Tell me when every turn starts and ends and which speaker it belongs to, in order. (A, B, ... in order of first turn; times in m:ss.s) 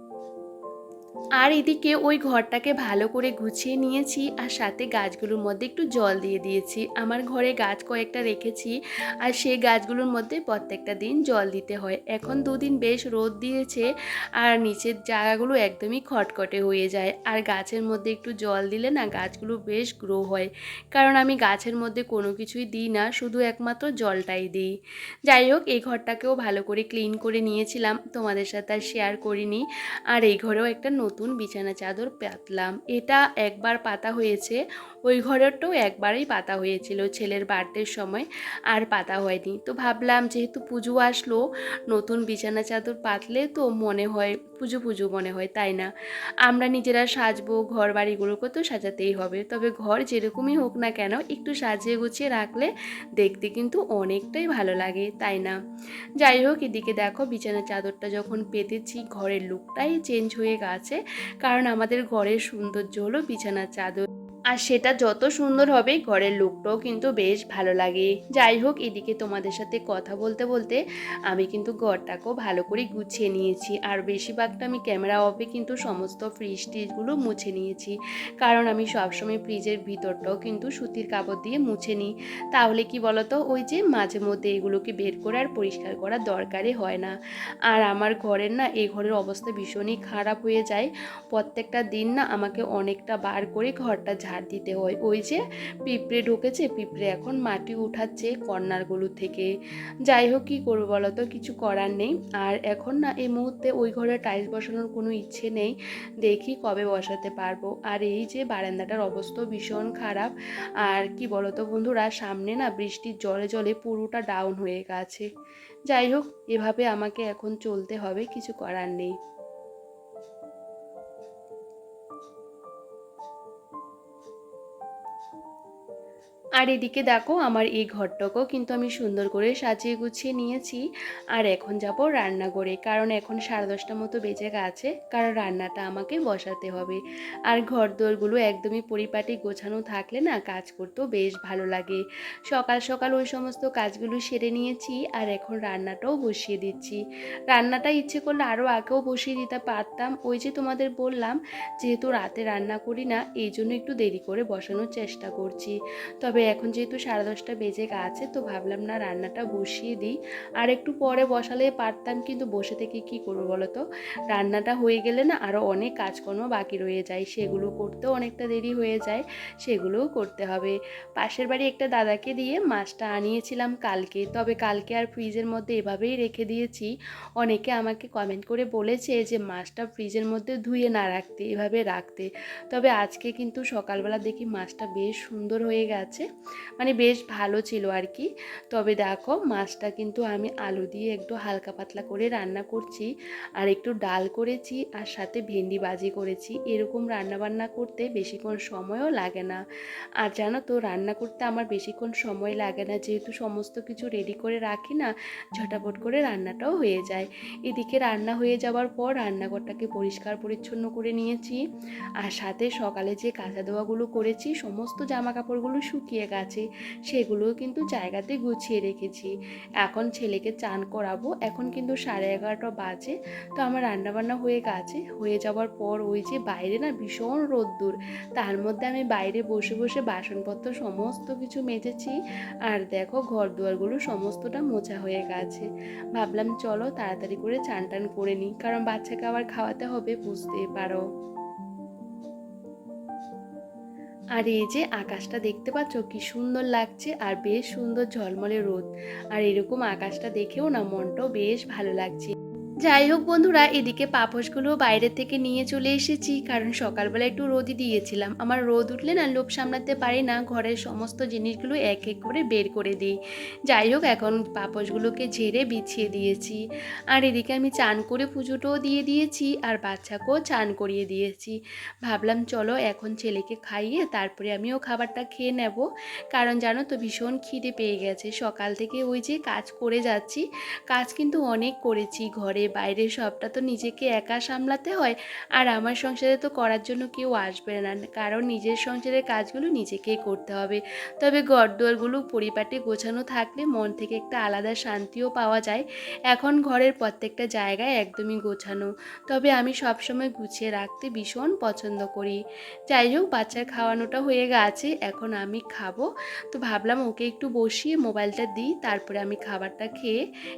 0:01.4-0:13.8 A
0:14.4-0:24.7 A
0:25.3-0:45.9 A
0:46.4-0:55.6 A
0:56.2-1:27.1 A
1:27.7-1:39.5 A
1:40.1-1:55.3 A
1:55.9-1:59.1 A
2:06.6-2:10.8 A
2:11.3-3:06.2 A
3:06.8-3:19.6 A
3:20.2-3:31.6 A
3:32.2-4:01.0 A
4:04.4-4:12.3 A
4:12.8-4:23.2 A
4:23.7-5:10.2 A